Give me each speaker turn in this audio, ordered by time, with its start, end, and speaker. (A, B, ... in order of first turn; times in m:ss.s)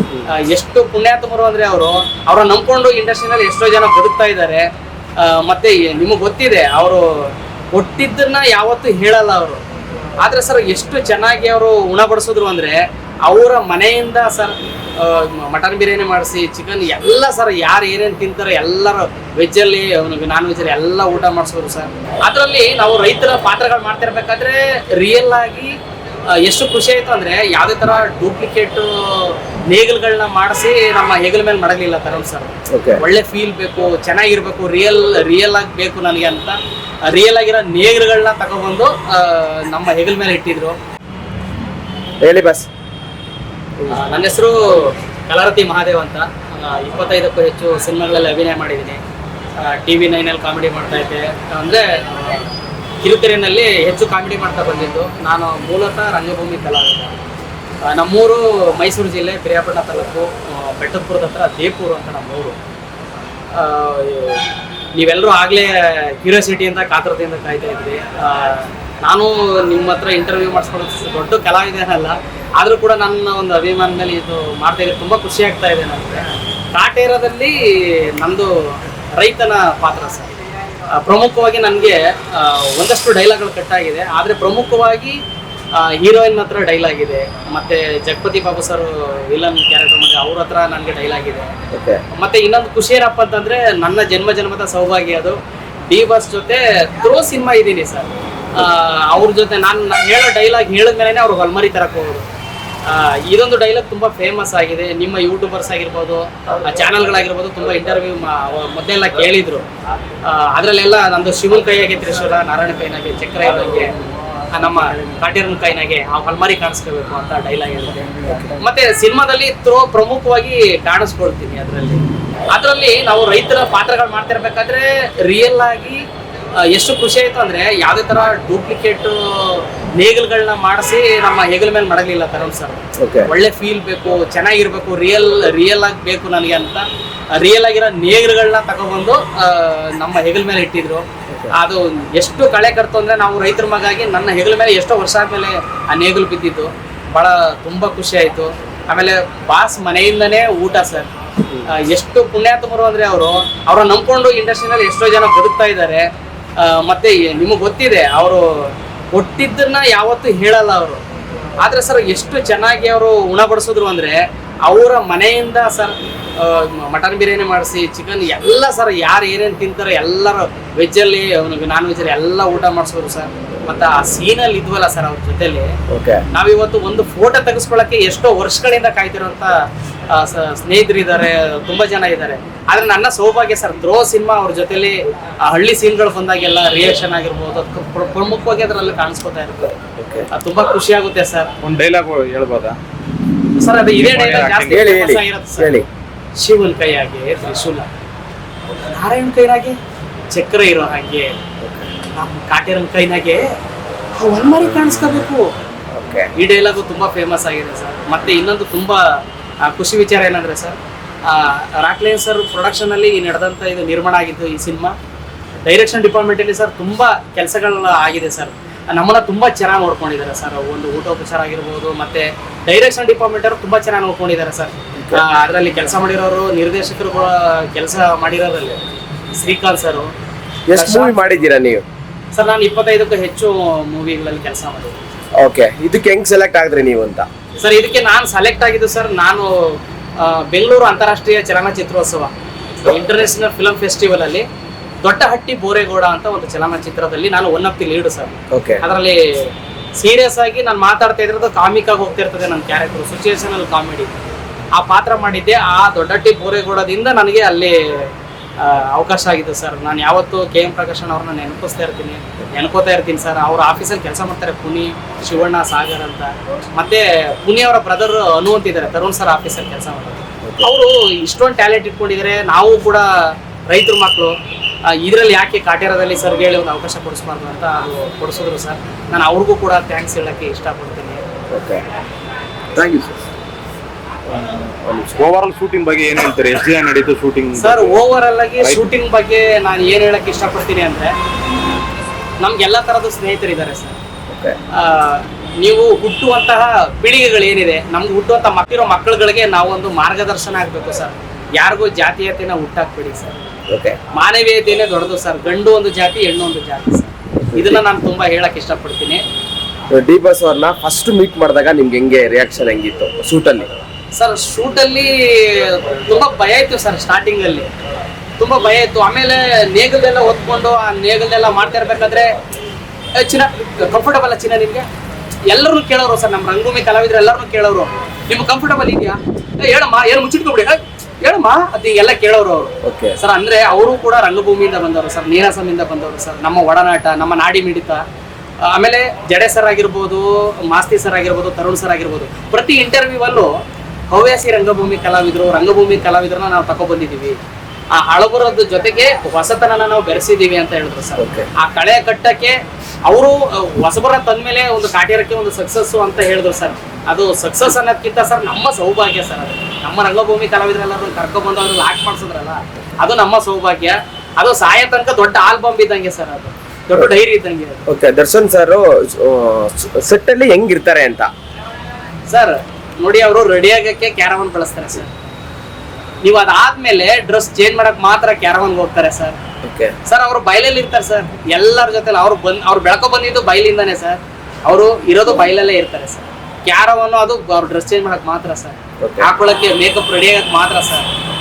0:00.3-0:04.7 A
0:05.2-0:09.6 A
0:10.2-0:25.8 A
0:26.3-0:40.8 A
0:32.7-0:33.0 B
0:42.2-0:42.7 B
0:43.9-0:49.0 A
0:49.6-0:57.2 A
0:57.9-1:02.6 A
1:03.5-1:04.4 A
1:05.0-1:20.3 A
1:20.9-1:25.2 A
1:25.7-1:31.5 A
1:31.7-1:32.0 B
1:32.1-1:42.2 A
1:42.8-1:49.7 A
1:50.2-1:54.0 A
1:54.5-2:06.0 A
2:06.6-2:31.1 A
2:13.0-2:13.3 B
2:21.3-2:21.5 B
2:31.7-2:36.1 A
2:36.6-2:41.0 A
2:41.6-2:55.7 A
2:55.9-2:56.2 B
2:56.3-2:59.6 A
3:00.1-3:09.8 A
3:10.0-3:10.3 B
3:10.3-3:11.5 A
3:11.6-3:12.8 C
3:13.6-3:15.8 A
3:13.9-3:14.8 C
3:14.7-3:15.9 B
3:16.4-3:17.9 A
3:18.9-3:19.8 A
3:20.3-3:21.4 A
3:21.6-3:21.9 B
3:22.2-3:23.5 A
3:24.2-3:25.5 A
3:25.9-3:26.3 B
3:26.4-3:35.0 A
3:35.7-3:48.8 A
3:45.0-3:45.2 B
3:49.3-3:50.1 A
3:50.7-3:51.8 B
3:50.7-3:51.2 A
3:52.3-3:55.0 A
3:55.4-3:57.3 B
3:57.6-4:02.3 A
4:02.8-4:04.4 A
4:05.0-4:14.2 A
4:08.5-4:08.8 B
4:14.8-4:33.1 A
4:30.4-4:30.7 B
4:33.7-4:34.4 A
4:34.9-4:41.2 A
4:41.5-4:41.8 B
4:42.8-4:43.2 B
4:44.3-4:45.2 B
4:45.2-4:48.0 C
4:47.6-4:51.1 A
4:52.4-4:54.0 A
4:54.3-4:54.6 B
4:54.7-5:03.4 A
5:03.7-5:04.0 B
5:04.1-5:09.2 A
5:07.4-5:07.8 B
5:09.9-5:13.7 B
5:14.2-5:17.7 A
5:18.4-5:22.3 A
5:23.2-5:24.9 A
5:25.5-5:38.0 A
5:32.8-5:33.2 B
5:38.6-5:43.5 A
5:44.1-5:47.4 A
5:47.9-6:07.9 A
5:51.2-5:51.5 B
6:07.9-6:11.3 B
6:12.3-6:15.1 A
6:16.2-6:19.4 A
6:19.6-6:20.0 B
6:20.1-6:31.1 A
6:29.0-6:29.3 B